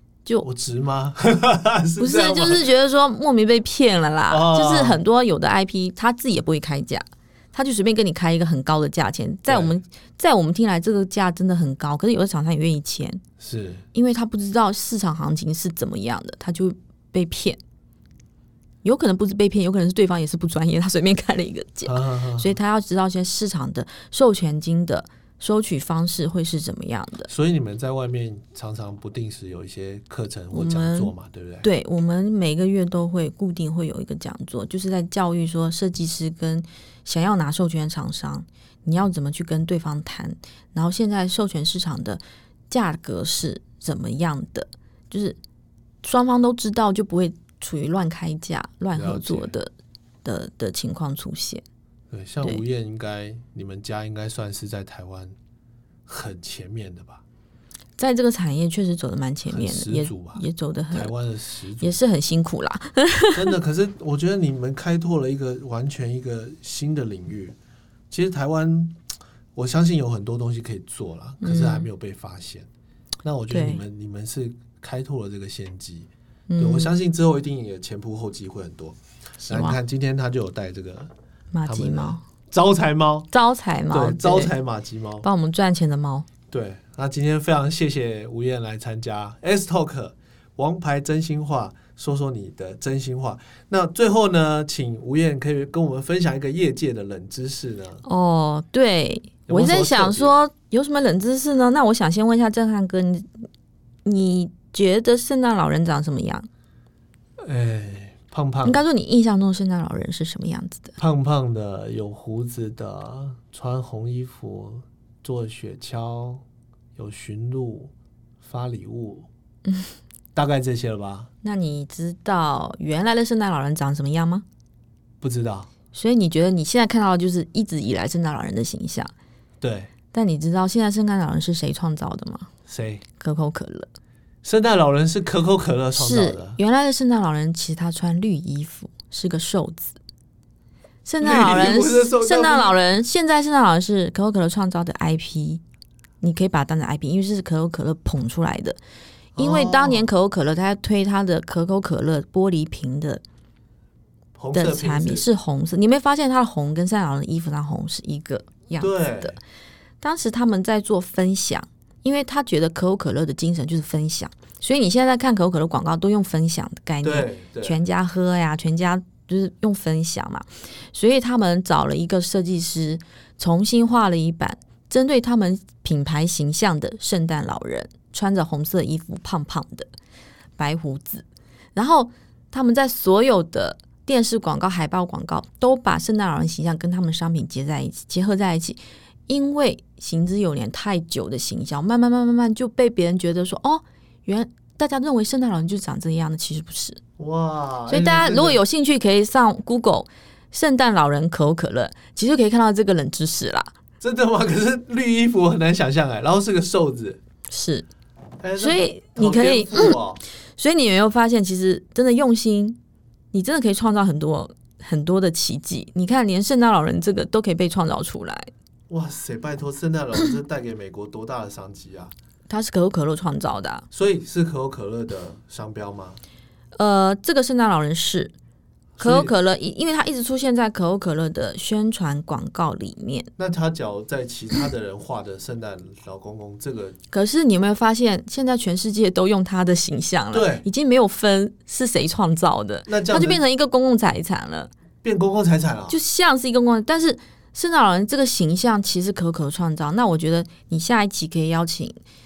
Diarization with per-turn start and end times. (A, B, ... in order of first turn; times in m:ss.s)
0:00.4-0:02.7 A
0:02.0-0:13.2 B
0:04.3-0:05.0 A
0:09.5-0:09.8 A
0:13.4-0:13.8 A
0:13.9-0:17.6 B
0:18.8-0:27.3 B
0:21.9-0:22.6 A
0:27.3-0:31.7 A
0:30.5-0:45.4 B
0:46.0-0:49.7 B
0:49.0-0:49.6 A
0:50.2-0:51.6 B
0:52.1-0:55.4 A
0:56.1-0:57.2 A
0:58.0-1:01.1 B
0:59.5-1:02.0 A
1:01.8-1:03.5 B
1:03.3-1:07.6 A
1:08.1-1:09.0 A
1:09.6-1:12.7 A
1:11.4-1:11.9 B
1:13.2-1:21.1 A
1:13.5-1:13.8 B
1:16.5-1:16.9 B
1:19.4-1:19.8 B
1:21.5-1:22.2 B
1:21.7-1:23.3 A
1:23.3-1:24.5 B
1:23.9-1:25.3 A
1:25.2-1:26.3 B
1:26.5-1:38.0 A
1:38.0-1:43.3 B
1:39.5-1:40.4 A
1:44.0-1:46.5 B
1:47.4-1:48.8 A
1:48.6-1:51.0 B
1:51.0-1:56.4 A
1:57.0-1:59.3 A
2:00.4-2:01.3 A
2:01.4-2:04.4 B
2:05.2-2:05.7 A
2:05.9-2:09.1 B
2:09.6-2:09.9 A
2:10.1-2:12.5 B
2:12.7-2:13.0 A
2:13.2-2:13.9 B
2:14.4-2:16.6 A
2:16.0-2:20.0 B
2:21.0-2:25.6 B
2:21.2-2:22.8 A
2:26.2-2:28.8 B
2:29.4-2:30.1 A
2:29.4-2:33.2 B
2:34.4-2:35.3 A
2:34.5-2:39.4 B
2:38.8-2:39.4 A
2:40.0-2:59.9 B
2:47.0-2:47.8 A
3:00.6-3:01.2 B
3:01.8-3:17.0 B
3:17.2-3:18.6 A
3:17.9-3:23.7 B
3:24.0-3:27.2 A
3:27.5-3:27.9 B
3:28.4-3:30.2 A
3:28.6-3:30.0 B
3:30.6-3:32.8 B
3:33.3-3:38.5 B
3:38.9-3:42.1 A
3:42.5-3:43.9 B
3:43.9-3:46.2 A
3:46.8-3:48.3 B
3:49.0-3:49.3 A
3:49.0-3:53.3 B
3:53.4-3:57.0 A
3:57.1-4:04.7 B
4:00.3-4:00.7 A
4:02.9-4:03.4 A
4:05.0-4:06.0 A
4:05.9-4:12.0 B